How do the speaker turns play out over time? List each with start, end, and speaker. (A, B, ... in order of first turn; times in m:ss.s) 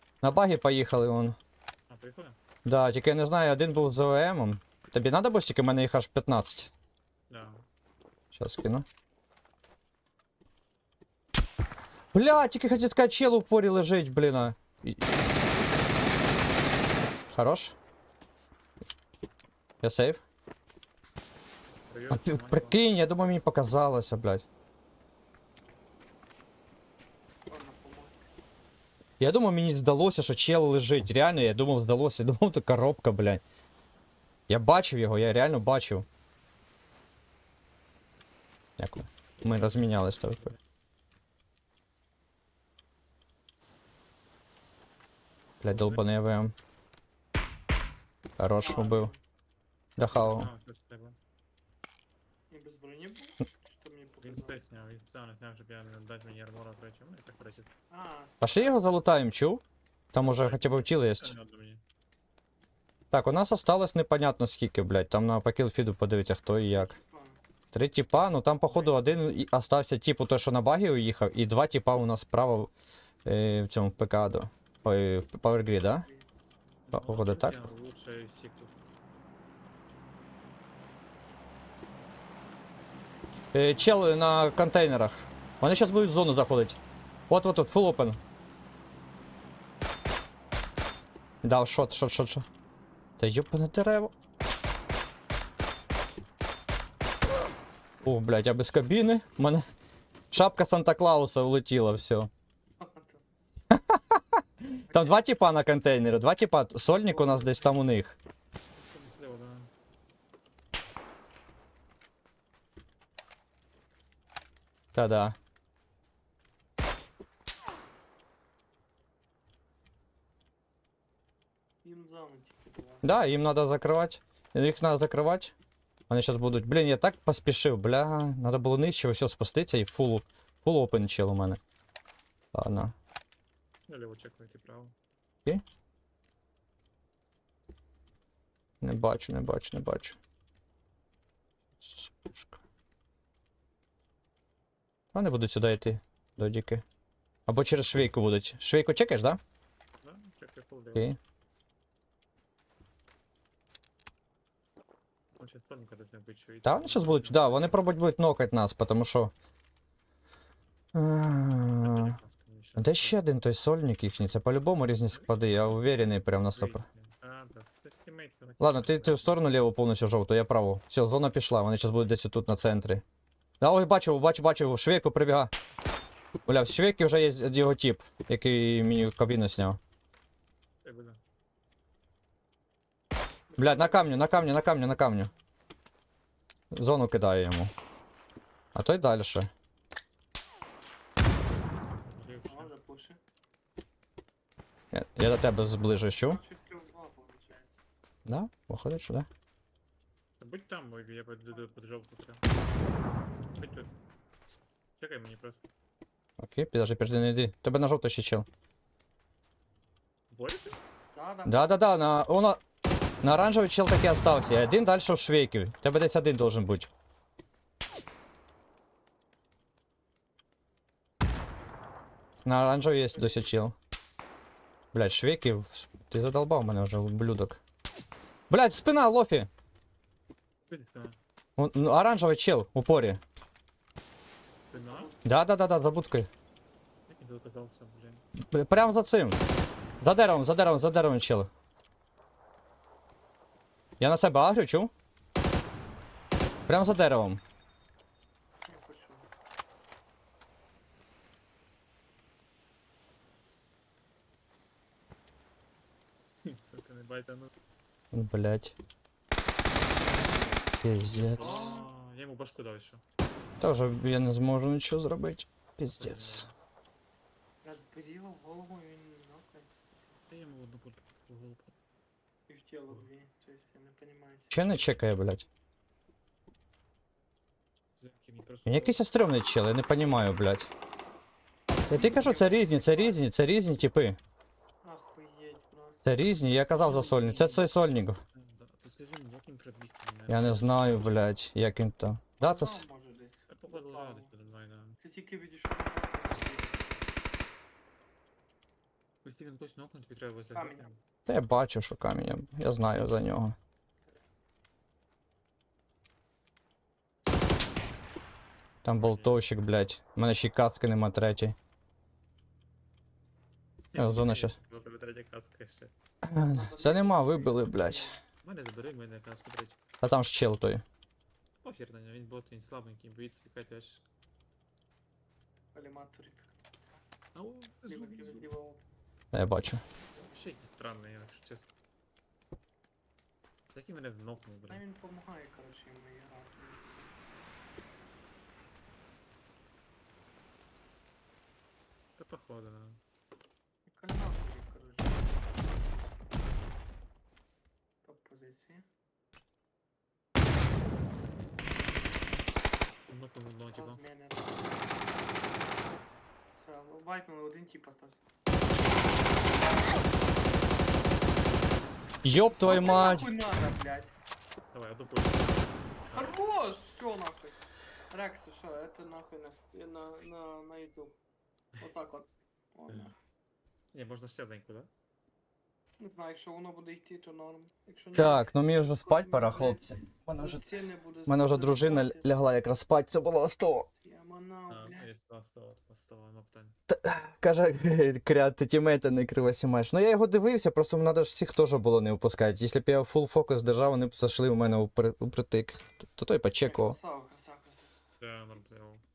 0:00.2-0:01.4 A
0:01.9-0:02.4 B
0:02.6-0:06.7 A
0:07.3-0:07.6 B
0:08.3-0:08.8 A
0:12.1-0:15.0 A
0:17.3-0:17.7 A
0:19.8-0:20.2 A
0:21.9-0:22.8 B
0:22.1-0:24.4 A
0:27.5-0:28.2 C
0:29.2-0:33.4 A
0:34.5-0:36.1 A
0:38.8-0:40.5 A
0:39.6-0:40.6 B
0:45.6-0:46.5 A
0:45.6-0:46.0 B
0:48.4-0:49.1 A
0:48.6-0:49.2 C
0:50.0-0:50.5 A
0:50.1-0:51.2 B
0:52.5-0:54.6 C
0:54.2-0:57.7 B
0:57.9-0:59.1 C
0:58.4-0:59.6 A
1:00.1-1:01.3 A
1:00.2-1:01.8 B
1:03.1-1:07.0 A
1:06.7-1:07.4 C
1:07.7-1:12.7 A
1:08.7-1:09.3 B
1:13.2-1:16.1 A
1:15.7-1:16.3 C
1:16.9-1:18.7 B
1:16.9-1:17.6 A
1:23.5-1:26.8 A
1:27.3-1:28.2 A
1:31.4-1:32.4 A
1:33.2-1:34.1 A
1:38.0-1:39.6 A
1:40.3-1:42.3 A
1:42.8-1:43.2 C
1:43.7-1:48.1 A
1:44.9-1:45.2 C
1:47.0-1:47.8 C
1:48.7-1:49.7 B
1:55.0-1:55.4 A
2:01.8-2:03.2 C
2:03.0-2:05.5 A
2:06.1-2:11.6 A
2:12.5-2:12.9 A
2:13.9-2:14.9 B
2:18.8-2:20.2 A
2:21.8-2:22.6 A
2:25.1-2:26.8 A
2:27.5-2:29.4 A
2:30.0-2:31.1 B
2:35.4-2:37.7 B
2:36.6-2:39.3 A
2:40.9-2:42.2 A
2:41.8-2:43.2 B
2:42.8-2:46.8 A
2:45.1-2:49.4 B
2:48.6-2:53.0 A
2:53.6-2:55.5 A
2:56.5-2:59.8 A
3:00.8-3:01.2 B
3:03.5-3:04.5 C
3:03.6-3:05.3 A
3:06.7-3:07.7 A
3:08.7-3:09.5 A
3:11.6-3:12.7 B
3:12.4-3:13.2 C
3:14.9-3:16.4 A
3:16.2-3:17.8 C
3:18.3-3:19.3 A
3:20.4-3:22.4 B
3:23.6-3:23.9 B
3:25.0-3:25.6 B
3:26.4-3:28.5 A
3:30.3-3:30.8 B
3:31.1-3:31.9 C
3:31.5-3:32.6 A
3:33.2-3:36.9 A
3:42.4-3:43.8 A
3:44.9-3:47.6 A
3:48.5-3:49.5 A
3:50.7-3:51.2 B
3:51.6-3:53.2 A
3:54.7-3:55.4 C
3:54.7-3:55.1 B
3:55.2-3:56.3 A
3:57.1-3:58.2 B
3:58.4-3:59.4 A
4:00.0-4:01.5 A
4:04.0-4:04.9 A
4:06.7-4:07.4 A
4:08.7-4:09.3 C
4:16.4-4:17.5 B
4:18.1-4:18.8 A
4:20.2-4:20.5 B
4:20.8-4:21.8 A
4:21.1-4:23.0 B
4:21.4-4:21.9 C
4:23.6-4:26.5 A
4:26.0-4:26.5 B
4:27.6-4:29.8 C
4:30.3-4:31.7 B
4:32.5-4:34.6 C
4:34.5-4:35.4 A
4:38.0-4:39.0 B
4:38.7-4:40.7 A
4:41.8-4:43.2 C
4:41.9-4:44.2 A
4:44.8-4:46.2 C
4:46.0-4:48.2 A
4:46.7-4:47.6 C
4:46.9-4:47.7 B
4:48.3-4:51.3 B
4:50.3-4:52.8 A
4:52.4-4:54.3 C
4:53.5-4:55.0 B
4:55.0-4:57.1 C
4:59.2-5:01.0 B
5:00.5-5:00.9 C
5:01.3-5:03.6 A
5:07.2-5:07.7 B
5:08.8-5:11.6 A
5:08.9-5:09.5 B
5:13.9-5:15.9 B
5:14.0-5:14.6 A
5:16.2-5:18.1 A
5:16.4-5:18.2 C
5:18.4-5:19.8 B
5:20.0-5:20.8 A
5:21.6-5:24.0 B
5:25.7-5:26.6 C
5:27.4-5:28.5 B
5:27.9-5:28.8 C
5:29.3-5:29.8 A
5:30.2-5:31.7 B
5:33.7-5:34.8 B
5:34.7-5:37.1 C
5:42.2-5:43.0 B
5:43.9-5:46.2 C
5:48.0-5:48.9 C
5:53.1-5:54.0 B
5:53.7-5:55.1 C
5:56.5-5:58.2 C
6:02.2-6:03.3 A
6:02.3-6:04.1 C
6:04.7-6:06.4 B
6:06.1-6:11.2 C
6:11.8-6:13.2 C
6:13.9-6:14.9 B
6:16.0-6:22.3 C
6:18.1-6:20.7 A
6:21.3-6:23.9 A
6:24.0-6:25.1 C
6:24.7-6:26.8 B
6:26.9-6:37.0 A
6:36.6-6:37.9 C
6:38.2-6:39.0 B